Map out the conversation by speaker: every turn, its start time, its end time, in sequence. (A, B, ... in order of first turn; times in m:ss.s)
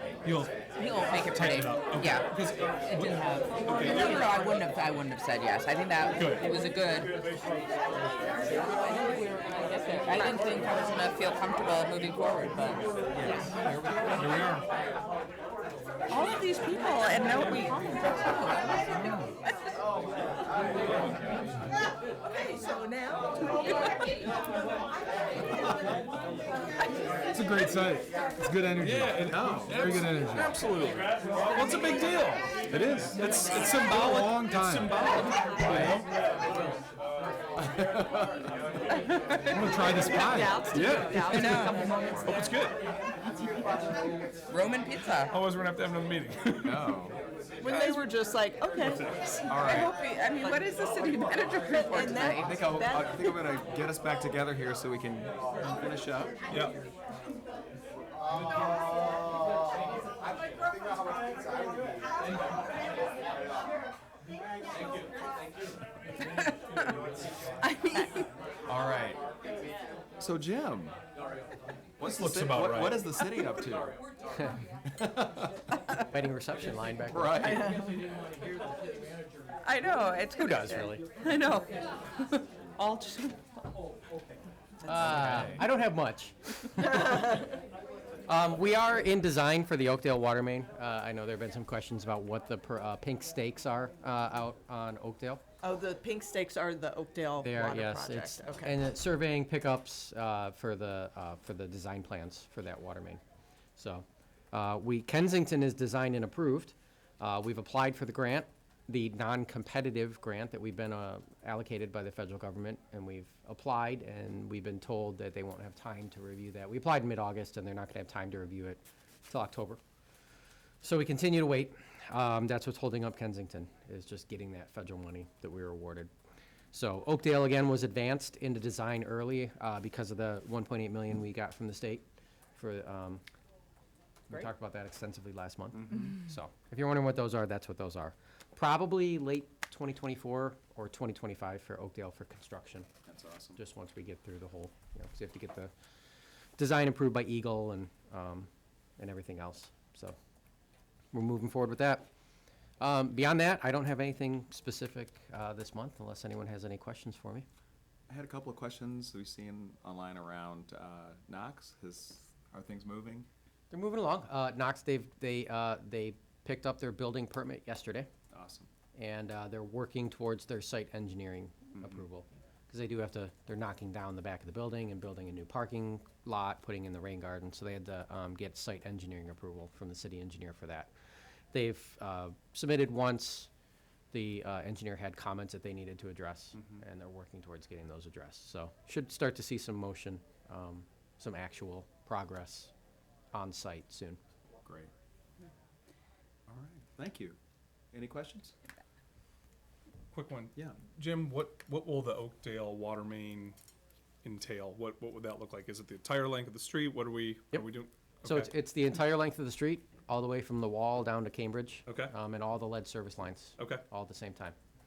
0:00.2-0:04.4 A
0:00.8-0:02.3 B
0:02.8-0:07.2 B
0:06.1-0:06.5 A
0:08.6-0:13.4 B
0:13.2-0:14.1 C
0:14.2-0:14.6 A
0:16.1-0:19.7 B
0:22.6-0:24.1 B
0:28.4-0:28.9 D
0:28.8-0:36.1 A
0:28.9-0:30.4 C
0:29.8-0:30.4 D
0:32.7-0:35.0 C
0:37.6-0:38.4 D
0:38.9-0:39.6 B
0:39.5-0:42.8 A
0:39.6-0:42.5 E
0:39.7-0:40.4 D
0:41.3-0:41.9 B
0:44.5-0:45.3 B
0:45.3-0:47.0 A
0:46.6-0:47.2 C
0:47.6-0:50.6 E
0:47.6-0:48.0 B
0:48.9-0:49.4 A
0:49.5-0:49.9 C
0:49.6-0:52.6 B
0:51.7-0:53.4 E
0:52.4-0:56.4 C
0:56.5-0:56.8 A
1:06.3-1:06.8 B
1:07.6-1:08.2 B
1:08.7-1:09.2 C
1:10.2-1:11.0 C
1:12.0-1:14.0 C
1:12.0-1:13.2 A
1:14.3-1:15.3 D
1:16.0-1:17.7 D
1:17.1-1:18.0 C
1:19.6-1:23.5 B
1:20.4-1:21.0 D
1:24.8-1:27.4 D
1:25.0-1:25.6 C
1:28.2-1:35.4 D
1:35.6-1:38.8 E
1:37.4-1:43.2 D
1:43.8-1:59.8 D
2:00.8-2:06.1 D
2:06.7-2:12.0 D
2:12.6-2:13.2 D
2:14.3-2:22.9 D
2:15.8-2:16.1 C
2:23.1-2:23.6 C
2:23.6-2:25.7 D
2:26.6-2:30.2 D
2:31.1-2:32.0 D
2:32.8-2:37.4 D
2:38.1-2:43.3 C
2:43.7-2:48.1 D
2:48.3-2:48.7 C
2:49.0-3:00.9 D
2:51.7-2:52.0 C
3:01.5-3:03.5 D
3:04.1-3:12.7 D
3:06.6-3:06.8 C
3:13.3-3:14.2 D
3:14.6-3:14.9 C
3:16.5-3:17.4 C
3:17.9-3:18.5 C
3:20.1-3:23.6 A
3:24.2-3:28.5 A
3:28.2-3:34.5 D
3:31.8-3:32.1 A